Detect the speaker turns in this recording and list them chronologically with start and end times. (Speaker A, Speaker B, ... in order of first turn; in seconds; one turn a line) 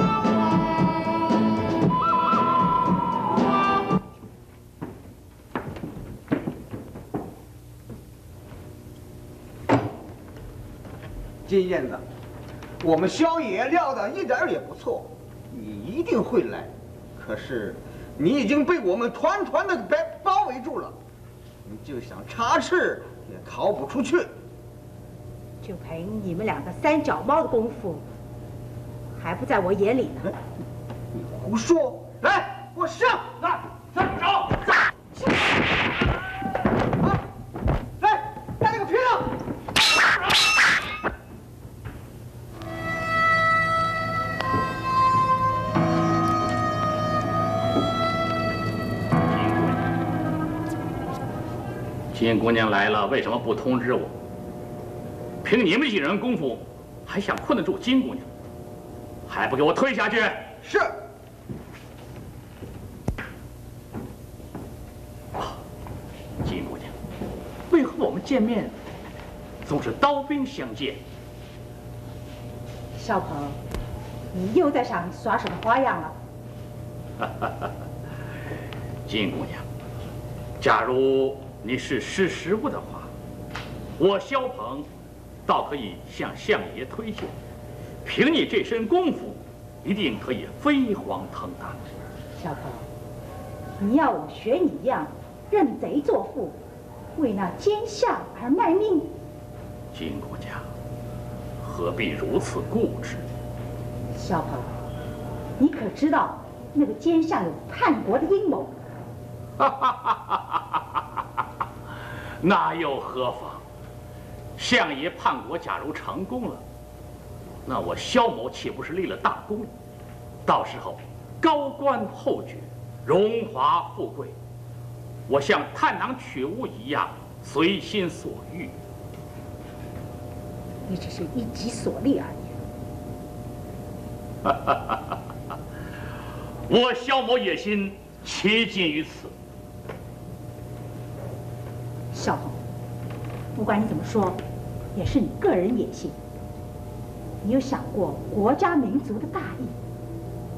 Speaker A: 11.5-12.0
Speaker A: 12.8-21.0
Speaker A: 21.7-24.3
Speaker B: 25.6-28.1
Speaker B: 29.1-30.3
Speaker A: 31.1-33.5
Speaker A: 38.0-39.3
Speaker C: 49.2-49.9
Speaker C: 52.1-54.1
Speaker C: 55.4-58.3
Speaker C: 59.3-60.5
Speaker A: 60.6-61.0
Speaker C: 66.4-66.9
Speaker C: 67.7-68.8
Speaker C: 69.6-71.0
Speaker B: 73.0-73.6
Speaker B: 74.3-76.2
Speaker C: 77.2-77.7
Speaker C: 79.1-79.7
Speaker C: 80.6-83.1
Speaker C: 84.0-84.9
Speaker C: 85.5-87.3
Speaker C: 88.0-91.8
Speaker B: 92.4-92.9
Speaker B: 93.8-96.6
Speaker B: 97.2-99.1
Speaker C: 99.9-100.7
Speaker C: 101.6-103.2
Speaker B: 104.1-104.7
Speaker B: 105.6-108.8
Speaker C: 109.6-111.0
Speaker C: 112.4-113.6
Speaker C: 114.6-116.6
Speaker C: 117.7-119.7
Speaker C: 120.5-124.3
Speaker C: 125.3-128.7
Speaker B: 130.9-132.6
Speaker C: 134.4-135.2
Speaker C: 136.7-139.3
Speaker B: 142.1-142.6
Speaker B: 143.6-144.4
Speaker B: 144.9-146.2
Speaker B: 147.4-149.8